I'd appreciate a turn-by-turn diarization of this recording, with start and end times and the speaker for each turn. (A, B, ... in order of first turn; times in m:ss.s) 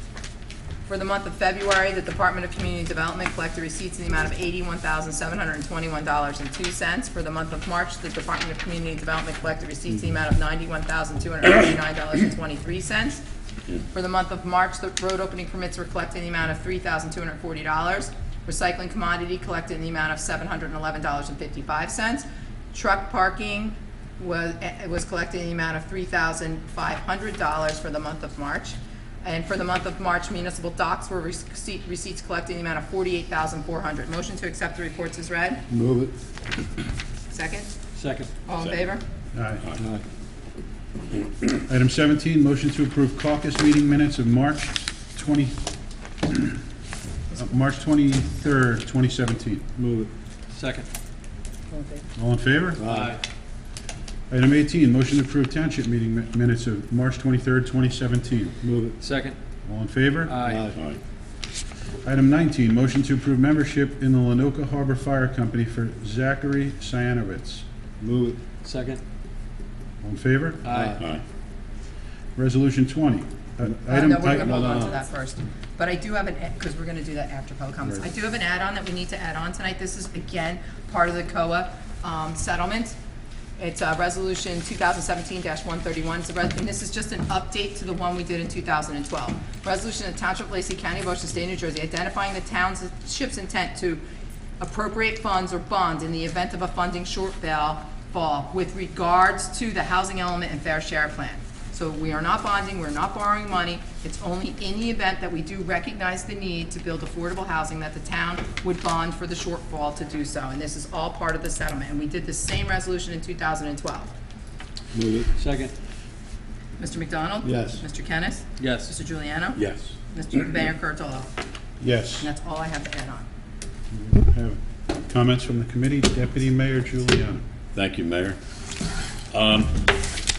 0:00.9-0:13.2 A
0:13.9-0:35.6 A
0:35.7-0:36.1 B
0:37.3-0:37.7 A
0:37.9-0:38.3 C
0:38.4-0:39.0 A
0:39.3-0:39.8 D
0:39.8-0:40.0 B
0:41.6-0:45.6 D
0:46.3-0:46.6 D
0:47.3-0:49.6 D
0:49.8-0:50.1 B
0:50.5-0:50.9 C
0:51.7-0:52.0 A
0:52.2-0:52.8 D
0:52.8-0:53.2 B
0:52.8-0:53.2 C
0:54.3-0:58.6 D
0:58.6-0:59.0 B
0:59.0-0:59.4 C
0:59.6-1:00.4 D
1:00.3-1:00.7 C
1:00.4-1:00.8 B
1:00.7-1:01.0 E
1:02.0-1:07.6 D
1:08.0-1:08.4 B
1:08.6-1:09.0 C
1:10.0-1:10.7 D
1:10.6-1:11.0 C
1:10.7-1:11.0 B
1:11.0-1:11.2 E
1:12.4-1:14.8 D
1:13.8-1:23.0 A
1:14.3-1:15.0 B
1:23.6-1:34.0 A
1:34.6-1:54.1 A
1:54.9-1:55.3 B
1:55.4-1:55.7 C
1:56.8-2:01.3 A
1:57.4-1:57.8 B
1:58.6-1:58.9 C
1:59.6-1:59.9 E
2:01.8-2:02.3 D
2:02.2-2:03.2 A
2:03.9-2:07.4 D
2:07.7-2:08.4 E
2:09.3-2:09.9 E